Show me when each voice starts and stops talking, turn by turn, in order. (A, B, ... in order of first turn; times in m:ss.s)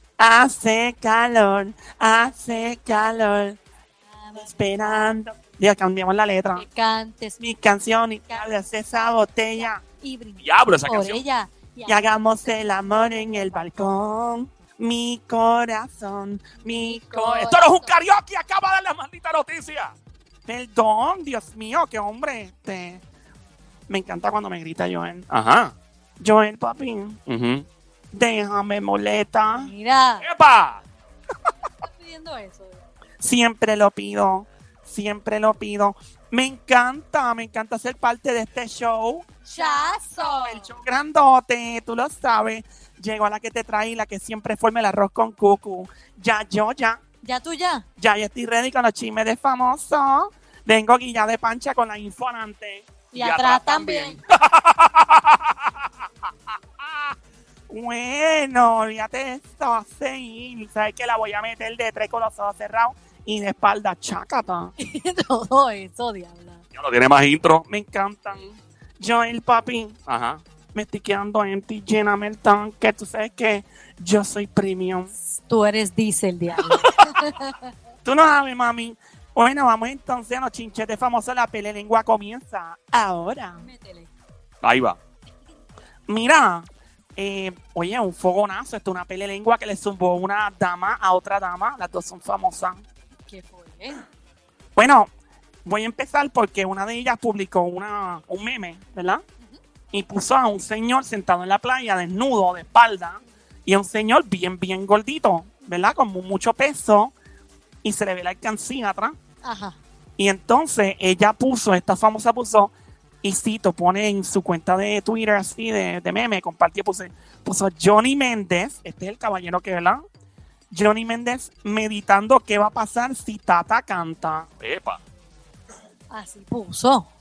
0:00.2-0:03.6 A
0:04.1-0:05.1 B
0:04.4-0:06.6 A
0:06.5-0:07.4 B
0:07.4-0:09.8 A
0:08.3-0:14.1 B
0:10.4-0:11.2 C
0:11.9-0:18.1 A
0:16.7-0:17.9 B
0:17.7-0:19.9 C
0:20.5-0:23.0 A
0:23.9-0:25.3 A
0:25.3-0:25.7 C
0:26.2-0:27.2 A
0:27.3-0:27.6 C
0:28.1-0:29.7 A
0:29.5-0:30.3 B
0:30.2-0:30.8 C
0:31.8-0:32.9 B
0:33.2-0:47.0 A
0:39.5-0:40.7 B
0:47.2-0:47.8 B
0:48.0-0:52.9 A
0:53.1-0:54.2 B
0:53.1-0:55.5 C
0:57.7-1:04.7 A
1:04.8-1:06.6 B
1:06.7-1:07.6 C
1:07.7-1:10.0 A
1:10.1-1:10.4 C
1:10.7-1:15.1 A
1:15.3-1:17.7 B
1:16.6-1:17.0 A
1:18.0-1:23.6 A
1:23.6-1:24.1 B
1:24.6-1:25.0 C
1:26.1-1:32.8 A
1:33.3-1:34.0 B
1:34.8-1:35.1 A
1:35.6-1:39.2 A
1:39.9-1:47.1 A
1:47.8-1:49.2 A
1:49.4-1:49.8 B
1:50.2-1:52.7 A
1:53.2-2:00.0 A
2:00.7-2:04.5 A
2:04.6-2:05.0 C
2:06.1-2:07.1 B